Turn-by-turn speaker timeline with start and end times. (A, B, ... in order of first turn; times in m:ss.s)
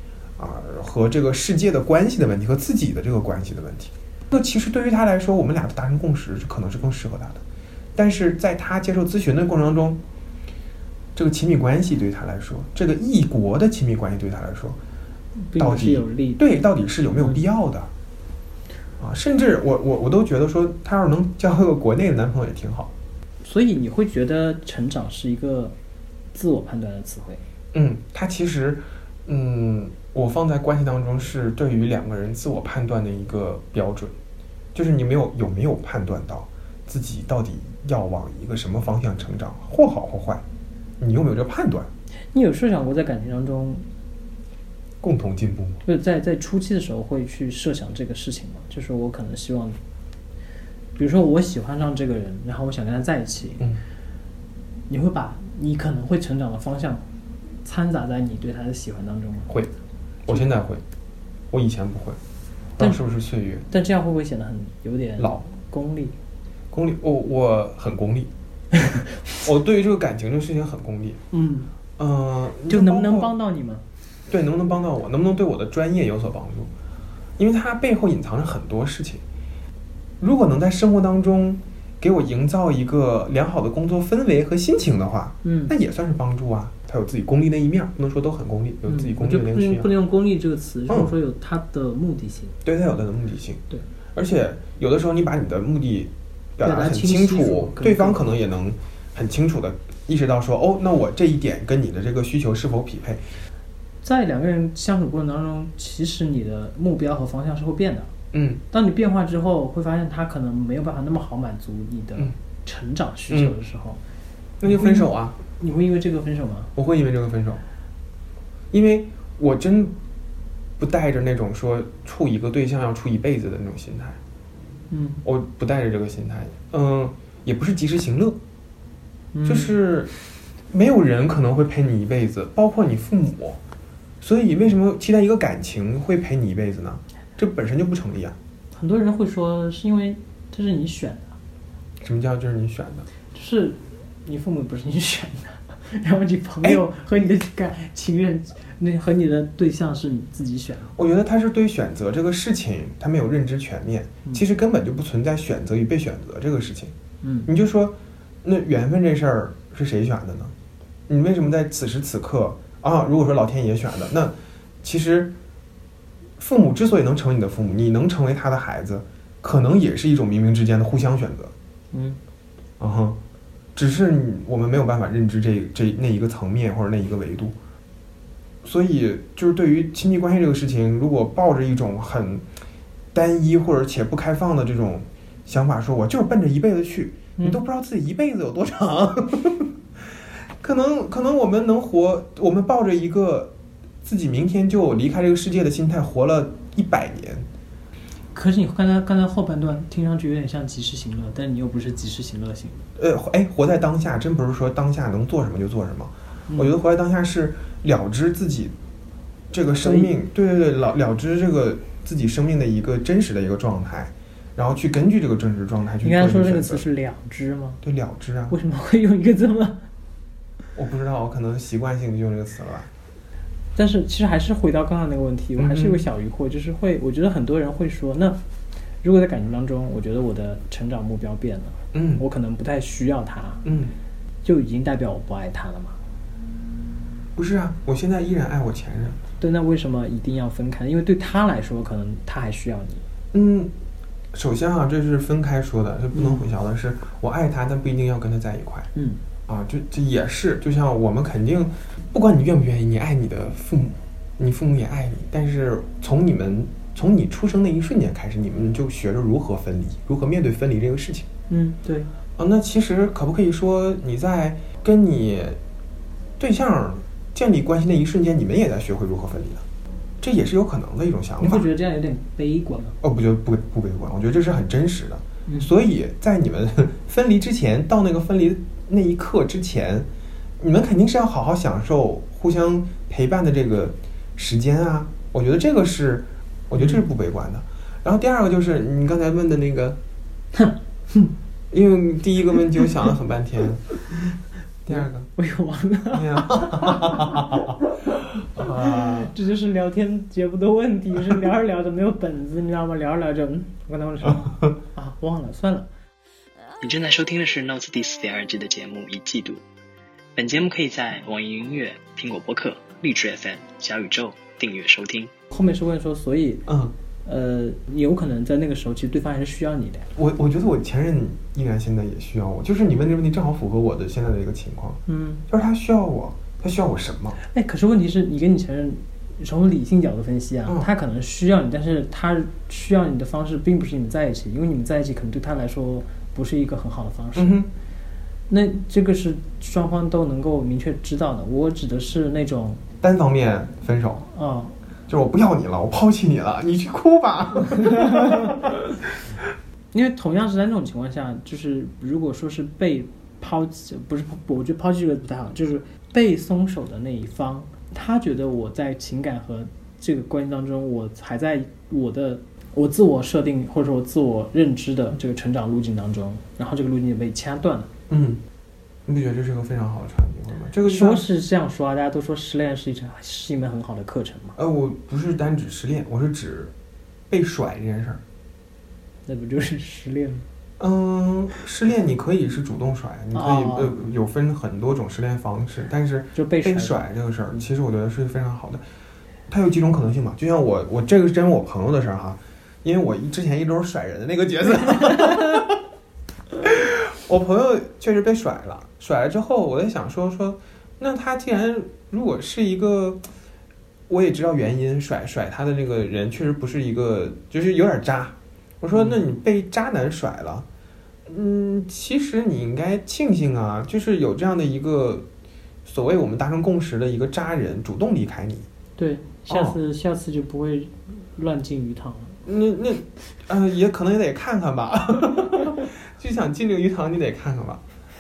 0:00.4-0:07.4 A
0:08.0-0:10.0 A
0:11.2-0:14.8 A
0:15.4-0:16.4 B
0:15.6-0:17.9 A
0:17.2-0:17.4 B
0:19.0-0:22.9 A
0:23.4-0:25.8 B
0:26.3-0:27.4 B
0:27.7-0:34.1 A
0:34.7-0:40.4 A
0:41.0-0:41.9 A
0:42.3-0:43.9 B
0:45.0-0:45.8 A
0:45.8-0:49.8 B
0:51.0-0:53.7 B
0:54.9-0:57.0 B
0:57.6-0:59.5 B
1:00.3-1:00.8 A
1:01.5-1:02.2 A
1:02.8-1:03.7 A
1:03.7-1:06.2 B
1:05.2-1:05.4 A
1:06.7-1:08.3 A
1:09.4-1:11.2 A
1:11.3-1:11.7 B
1:12.0-1:13.3 A
1:12.7-1:13.8 B
1:14.3-1:16.7 A
1:17.4-1:19.2 A
1:20.2-1:29.9 A
1:25.4-1:25.7 B
1:28.9-1:32.6 B
1:30.9-1:31.1 A
1:32.6-1:33.6 A
1:34.2-1:43.2 A
1:36.6-1:38.3 B
1:44.0-1:48.1 B
1:48.3-1:48.6 A
1:48.7-1:54.0 B
1:53.3-1:53.6 A
1:54.6-1:55.4 A
1:54.6-1:56.7 B
1:56.8-1:57.6 A
1:58.7-1:59.9 A
2:00.8-2:04.2 A
2:04.9-2:05.2 B
2:05.2-2:08.4 A
2:09.3-2:09.8 B
2:09.4-2:10.1 A
2:10.7-2:13.6 A
2:14.2-2:18.4 A
2:18.7-2:21.4 B
2:22.0-2:23.1 A
2:23.3-2:30.9 B
2:31.0-2:36.9 A
2:37.2-2:37.5 B
2:37.5-2:40.5 A
2:41.1-2:45.3 A
2:46.4-2:51.5 A
2:51.9-2:52.2 B
2:52.8-2:53.2 A
2:53.8-2:57.6 A
2:58.6-3:02.4 A
3:03.1-3:09.7 A
3:10.6-3:13.5 A
3:14.0-3:17.4 A
3:18.3-3:22.8 B
3:23.0-3:28.7 A
3:26.5-3:26.7 B
3:29.5-3:36.8 A
3:29.8-3:30.1 B
3:36.0-3:37.8 B
3:37.8-3:38.6 A
3:38.5-3:39.8 B
3:40.8-3:42.9 A
3:43.8-3:48.4 B
3:45.6-3:46.0 A
3:49.0-3:53.6 B
3:51.9-3:52.2 A
3:53.6-3:53.9 A
3:54.4-3:56.0 B
3:57.4-3:59.2 A
3:59.4-4:03.0 B
4:03.3-4:03.7 A
4:04.3-4:08.9 A
4:06.1-4:06.5 B
4:09.0-4:09.2 B
4:09.5-4:21.3 A
4:21.5-4:22.1 B
4:22.4-4:25.6 A
4:26.4-4:29.6 A
4:30.2-4:31.7 A
4:31.4-4:33.0 B
4:33.0-4:40.1 A
4:40.6-4:50.0 A
4:46.8-4:47.0 B
4:50.5-4:51.3 B
4:51.7-4:53.8 A
4:54.9-4:55.3 A
4:54.9-4:57.7 B
4:56.1-4:57.7 A
4:58.5-4:59.3 A
4:58.6-5:05.9 B
5:06.8-5:09.6 C
5:10.4-5:15.3 C
5:15.5-5:16.7 B
5:16.7-5:16.9 A
5:17.2-5:20.1 B
5:20.2-5:27.4 A
5:25.1-5:25.4 B
5:27.4-5:37.6 B
5:37.4-5:37.7 A
5:38.5-5:42.8 B
5:43.0-5:44.3 A
5:44.3-5:44.8 B
5:45.1-5:48.6 A
5:47.8-5:48.6 B
5:49.9-6:07.9 B
6:08.1-6:08.4 A
6:09.1-6:11.2 A
6:10.8-6:14.6 B
6:14.6-6:16.7 A
6:17.3-6:18.2 A
6:19.3-6:20.4 B
6:20.8-6:28.8 A
6:23.3-6:24.0 B
6:26.4-6:27.1 B
6:29.5-6:35.7 A
6:36.6-6:43.2 A
6:44.1-6:50.7 A
6:48.9-6:49.2 B
6:51.3-6:55.3 A
6:55.8-6:58.7 A
6:59.0-7:02.4 B
6:59.5-6:59.8 A
7:02.4-7:07.8 A